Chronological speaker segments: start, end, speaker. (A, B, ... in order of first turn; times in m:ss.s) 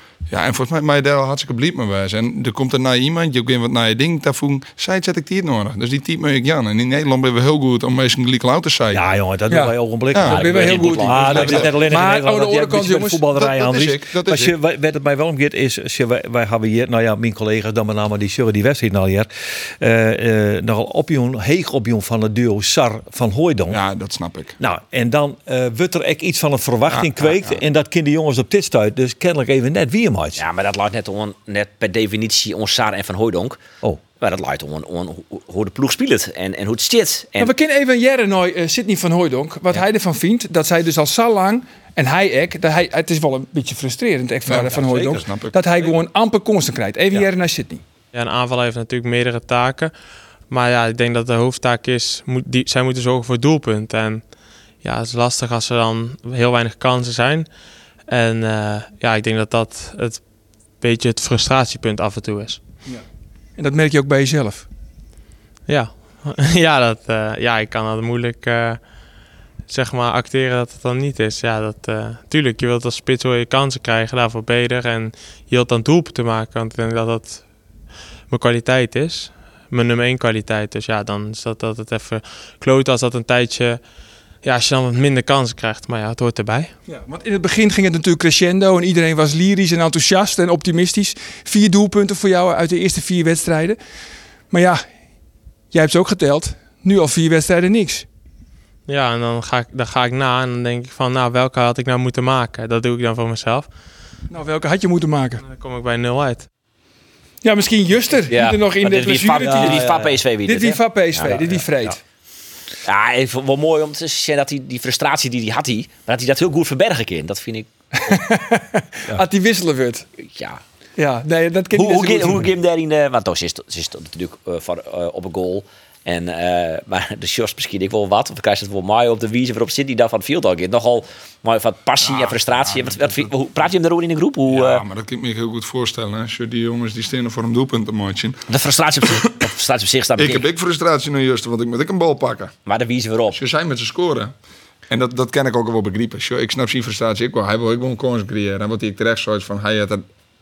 0:00.3-0:09.0 A
0:08.9-0:23.8 B
0:09.5-0:13.2 C
0:10.1-0:11.7 A
0:10.3-0:11.7 D
0:13.3-0:14.5 A
0:23.7-0:24.6 A
0:24.6-0:30.4 B
0:30.4-0:33.6 D
0:34.2-0:37.5 D
0:37.4-0:47.8 C
0:44.5-0:45.6 A
0:48.1-0:49.9 E
0:50.5-0:57.5 E
0:58.0-1:02.6 E
1:03.6-1:04.6 C
1:05.7-1:08.9 E
1:09.7-1:17.4 E
1:18.3-1:23.8 E
1:24.4-1:26.7 E
1:26.9-1:33.8 C
1:34.5-1:34.8 C
1:35.7-1:38.0 C
1:38.9-1:43.7 E
1:44.3-1:45.4 C
1:45.4-1:46.4 E
1:47.4-1:49.8 C
1:48.3-1:51.4 D
1:49.4-1:50.2 B
1:50.4-1:52.0 C
1:51.3-1:51.9 B
1:52.8-1:57.7 D
1:57.9-2:00.0 C
2:00.2-2:00.6 D
2:01.0-2:02.5 C
2:01.7-2:14.8 D
2:12.0-2:13.3 A
2:14.5-2:18.4 A
2:18.5-2:20.4 D
2:20.2-2:22.5 A
2:22.6-2:23.4 D
2:23.3-2:24.3 A
2:24.9-2:30.0 A